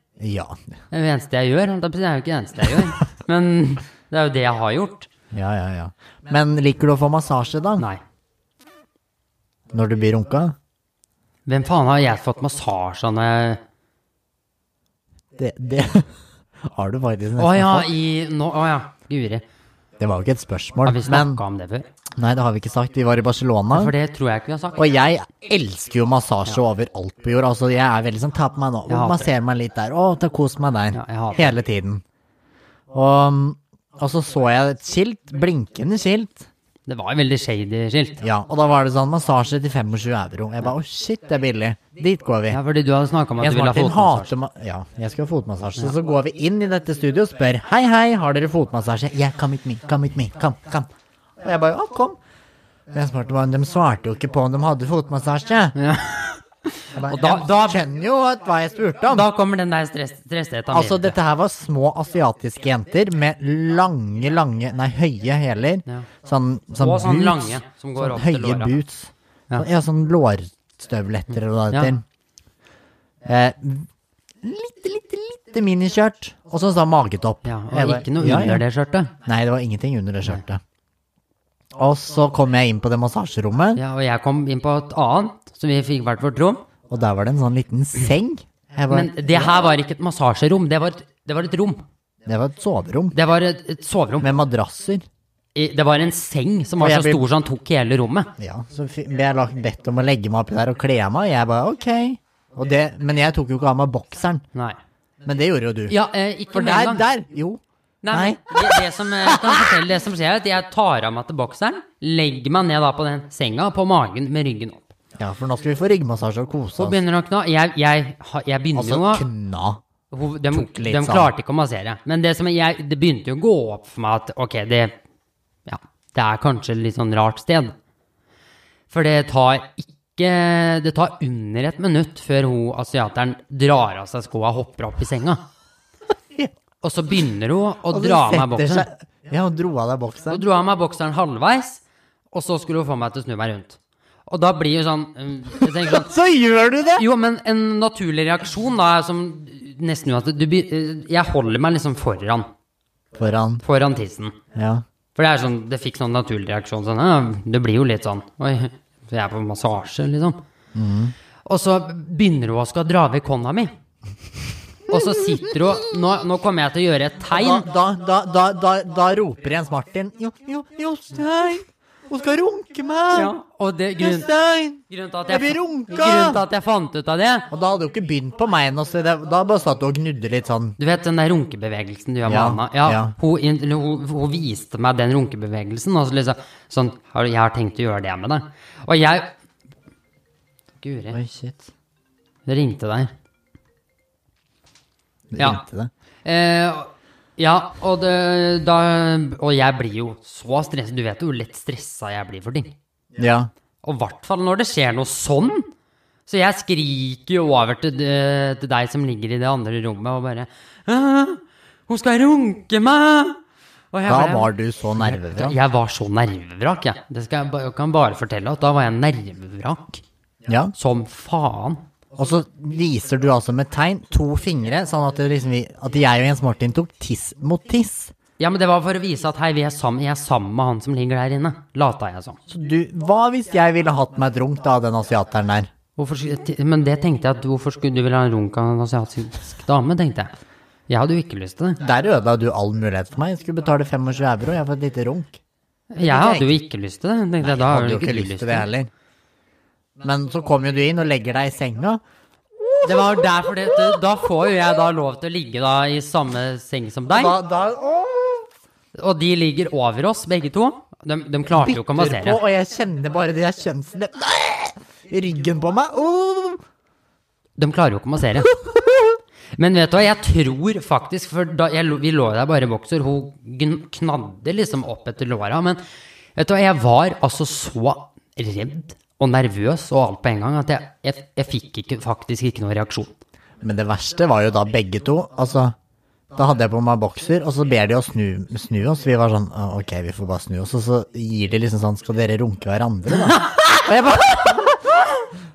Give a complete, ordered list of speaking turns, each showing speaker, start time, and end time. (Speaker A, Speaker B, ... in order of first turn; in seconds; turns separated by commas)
Speaker A: 0.2-0.6, Speaker B: 0.9-5.1, Speaker A: 5.3-7.8, Speaker A: 9.7-10.5, Speaker B: 11.4-13.6, Speaker A: 15.4-16.1, Speaker A: 16.6-17.9, Speaker B: 17.4-19.4, Speaker A: 20.0-21.4, Speaker B: 20.8-21.9, Speaker A: 22.2-23.9, Speaker B: 23.7-25.0, Speaker A: 24.8-32.0, Speaker B: 28.9-29.3, Speaker B: 30.9-31.6, Speaker A: 32.9-36.5, Speaker B: 36.9-38.2, Speaker A: 38.2-42.6, Speaker B: 42.5-44.3, Speaker A: 43.4-50.9, Speaker A: 51.4-52.2, Speaker A: 52.9-55.7, Speaker B: 55.8-57.8, Speaker A: 56.9-59.3, Speaker B: 59.1-61.2, Speaker A: 60.7-72.0, Speaker B: 66.8-68.8, Speaker A: 73.2-73.9, Speaker A: 74.4-78.6, Speaker B: 77.4-79.1, Speaker A: 79.2-80.6, Speaker A: 81.8-83.8, Speaker B: 83.7-86.6, Speaker A: 86.9-89.7, Speaker B: 88.9-91.8, Speaker A: 92.2-93.1, Speaker B: 93.1-94.3, Speaker A: 94.2-95.0, Speaker B: 95.5-98.3, Speaker A: 96.8-97.2, Speaker A: 98.4-104.4, Speaker A: 105.2-106.0, Speaker B: 105.9-107.1, Speaker A: 106.5-109.7, Speaker B: 108.0-114.9, Speaker A: 115.2-117.0, Speaker B: 116.8-119.2, Speaker A: 118.7-119.8, Speaker B: 120.1-125.0, Speaker A: 120.5-121.3, Speaker B: 125.7-127.7, Speaker B: 128.9-135.5, Speaker B: 136.8-138.9, Speaker A: 137.9-140.4, Speaker B: 140.3-146.1, Speaker A: 145.6-147.1, Speaker B: 146.9-152.5, Speaker A: 153.1-153.6, Speaker B: 153.6-154.4, Speaker A: 154.5-154.8, Speaker B: 155.2-160.4, Speaker A: 160.7-161.1, Speaker B: 161.4-163.7, Speaker B: 164.9-167.7, Speaker A: 167.3-173.3, Speaker B: 173.1-174.3, Speaker A: 174.0-176.4, Speaker B: 174.8-177.5, Speaker A: 177.5-180.8, Speaker B: 180.8-189.3, Speaker A: 182.2-183.2, Speaker B: 190.8-191.2, Speaker A: 191.1-191.7, Speaker B: 192.4-193.1, Speaker A: 195.3-195.9, Speaker B: 196.2-202.7, Speaker A: 203.2-203.5, Speaker B: 203.8-205.7, Speaker B: 206.2-213.4, Speaker B: 213.9-220.0, Speaker A: 214.0-215.6, Speaker A: 220.5-220.7, Speaker B: 220.8-221.8, Speaker A: 222.2-228.1, Speaker B: 228.4-232.4, Speaker A: 232.5-235.7, Speaker B: 236.0-240.3, Speaker B: 240.9-241.8, Speaker A: 241.8-245.4, Speaker B: 245.9-248.7, Speaker A: 246.0-246.5, Speaker A: 247.4-248.9, Speaker A: 250.0-252.0, Speaker A: 252.6-254.0, Speaker B: 252.8-257.4, Speaker A: 257.1-258.5, Speaker B: 258.9-262.4, Speaker A: 261.5-266.6, Speaker B: 267.6-268.5, Speaker B: 269.5-275.8, Speaker B: 276.4-283.1, Speaker A: 283.6-285.7, Speaker A: 286.4-295.2